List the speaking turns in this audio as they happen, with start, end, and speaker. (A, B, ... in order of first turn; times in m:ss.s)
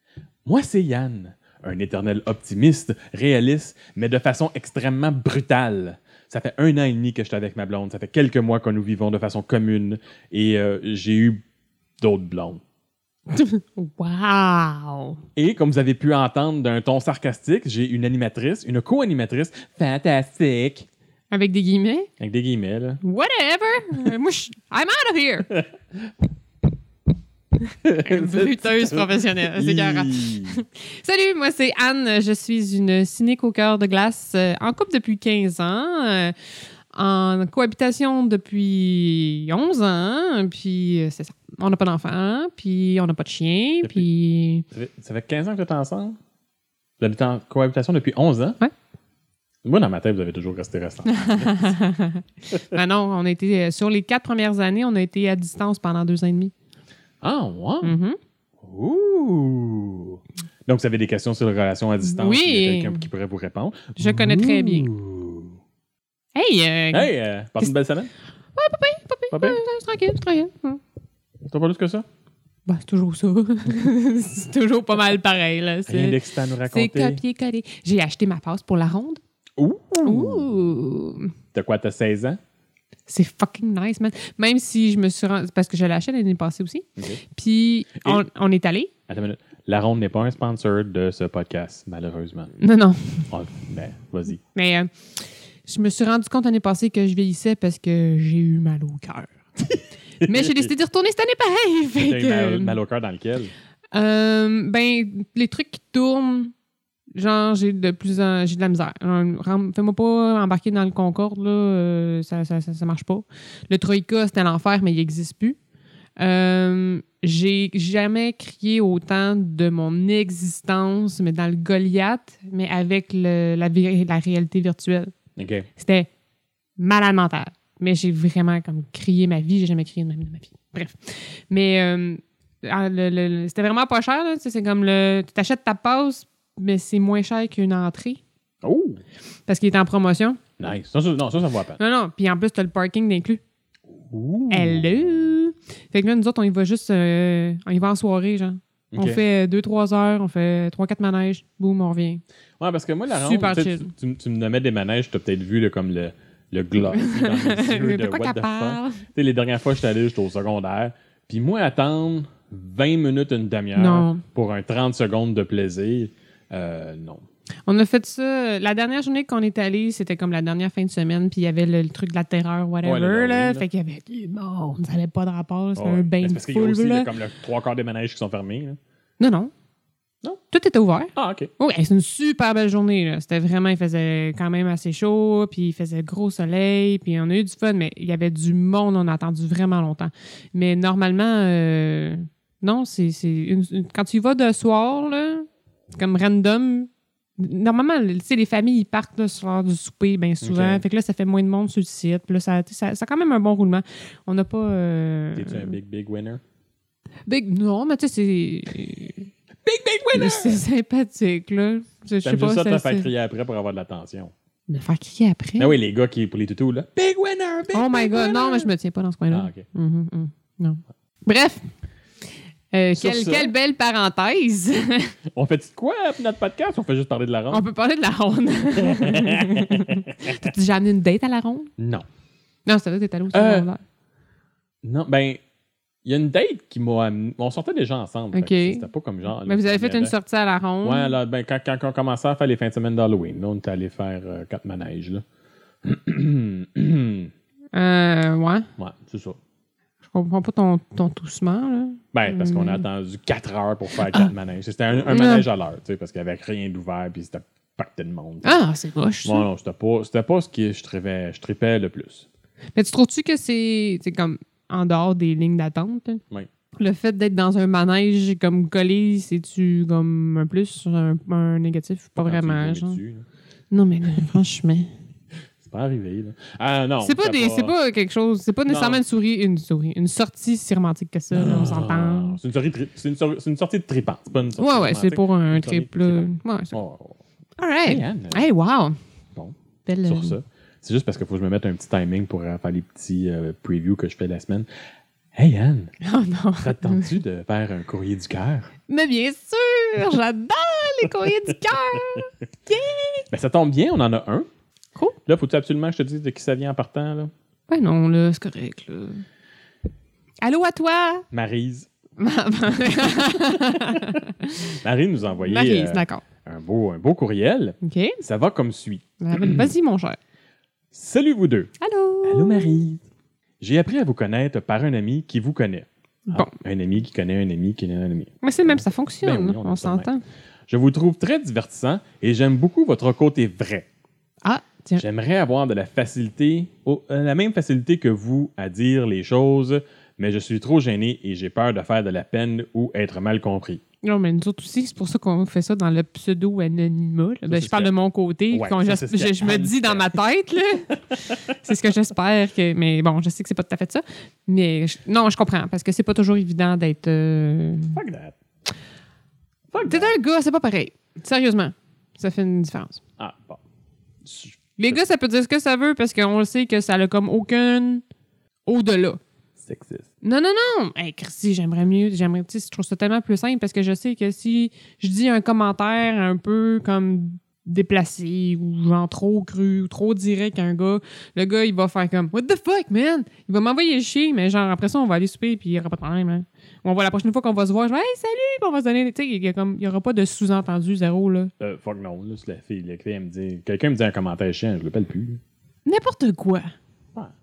0:00.5-0:11.4 A
0:12.0-0:12.6 A
0:13.3-0:15.2 B
0:15.4-0:20.9 A
0:21.3-0:22.1 B
0:22.2-0:23.0 A
0:23.0-0:25.6 B
0:27.8-0:30.6 A
0:28.0-0:36.3 B
0:36.9-0:44.7 B
0:44.7-0:46.2 A
0:47.0-0:48.6 A
0:49.6-0:51.7 A
0:51.1-0:56.5 B
0:57.2-0:58.0 A
0:57.8-0:58.2 B
0:58.6-1:05.6 A
1:02.0-1:03.1 B
1:04.0-1:04.9 B
1:06.4-1:07.7 B
1:06.9-1:08.1 A
1:08.6-1:10.8 B
1:09.3-1:09.6 A
1:11.4-1:12.1 A
1:12.7-1:19.2 B
1:15.9-1:17.2 A
1:19.6-1:20.6 A
1:20.0-1:21.3 B
1:21.5-1:22.4 A
1:23.1-1:28.9 B
1:29.1-1:32.5 A
1:32.6-1:33.3 B
1:33.3-1:34.4 A
1:34.5-1:34.9 B
1:35.7-1:39.4 B
1:40.2-1:40.7 A
1:40.2-1:42.8 B
1:42.0-1:43.5 A
1:43.9-1:46.5 B
1:47.2-1:55.6 B
1:56.2-2:05.1 B
2:05.4-2:05.7 A
2:05.8-2:06.1 B
2:06.8-2:18.2 B
2:18.6-2:19.0 A
2:19.5-2:20.4 B
2:20.6-2:21.8 A
2:21.8-2:23.4 B
2:23.9-2:25.4 A
2:24.5-2:32.2 B
2:28.9-2:29.2 A
2:32.6-2:47.2 A
2:33.2-2:33.9 B
2:36.9-2:39.0 B
2:43.8-2:44.2 B
2:47.7-2:57.1 B
2:52.8-2:53.6 A
2:55.8-2:58.8 A
2:59.2-2:59.5 B
3:00.5-3:25.8 B
3:01.2-3:01.5 A
3:20.4-3:20.8 A
3:25.4-3:26.4 A
3:27.3-3:29.3 B
3:29.6-3:30.6 A
3:30.1-3:33.1 B
3:32.2-3:34.3 A
3:34.7-3:35.8 B
3:35.6-3:38.7 A
3:37.7-3:41.7 B
3:39.3-3:39.6 A
3:42.7-3:45.1 B
3:43.0-3:43.5 A
3:45.3-3:47.6 A
3:47.5-3:51.7 B
3:48.8-3:50.4 A
3:51.8-3:52.1 A
3:52.7-3:53.8 B
3:53.3-3:53.7 A
3:54.8-3:55.4 A
3:56.0-4:00.1 A
3:58.3-3:58.9 B
3:59.4-4:01.1 B
4:00.8-4:05.2 A
4:05.8-4:07.3 A
4:07.7-4:08.7 B
4:08.8-4:09.4 A
4:10.1-4:12.8 B
4:12.1-4:18.5 A
4:15.1-4:15.5 B
4:18.4-4:19.5 B
4:19.2-4:22.3 A
4:22.8-4:26.2 B
4:26.8-4:33.0 B
4:32.2-4:33.2 A
4:33.7-4:34.9 B
4:35.6-4:37.7 A
4:37.0-4:42.4 B
4:38.7-4:39.0 A
4:41.3-4:47.2 A
4:44.6-4:46.8 B
4:47.6-4:49.0 B
4:47.9-4:48.5 A
4:49.4-4:54.7 A
4:49.9-4:50.4 B
4:55.3-4:55.9 A
4:56.0-4:57.1 B
4:56.6-4:58.7 A
4:58.9-5:03.3 B
5:03.3-5:04.5 A
5:05.3-5:07.3 A
5:07.7-5:09.2 B
5:10.4-5:11.3 B
5:11.3-5:11.9 A
5:12.2-5:14.7 B
5:13.1-5:14.2 A
5:14.8-5:19.7 A
5:15.4-5:16.2 B
5:17.8-5:18.2 B
5:19.2-5:20.2 B
5:20.9-5:21.7 A
5:21.8-5:22.8 B
5:22.2-5:23.0 A
5:23.6-5:30.1 A
5:26.3-5:26.5 B
5:28.4-5:30.2 B
5:30.7-5:33.9 A
5:34.4-5:35.0 B
5:35.0-5:43.8 A
5:44.0-5:51.0 B
5:47.5-5:47.9 A
5:48.5-5:50.2 A
5:51.5-5:58.0 B
5:57.9-5:58.4 A
5:59.7-6:00.2 A
5:59.8-6:03.0 B
6:03.2-6:03.6 A
6:04.2-6:05.0 A
6:04.8-6:08.0 B
6:08.7-6:09.2 B
6:09.6-6:10.1 A
6:10.2-6:31.5 B
6:31.6-6:35.4 A
6:35.9-6:36.7 B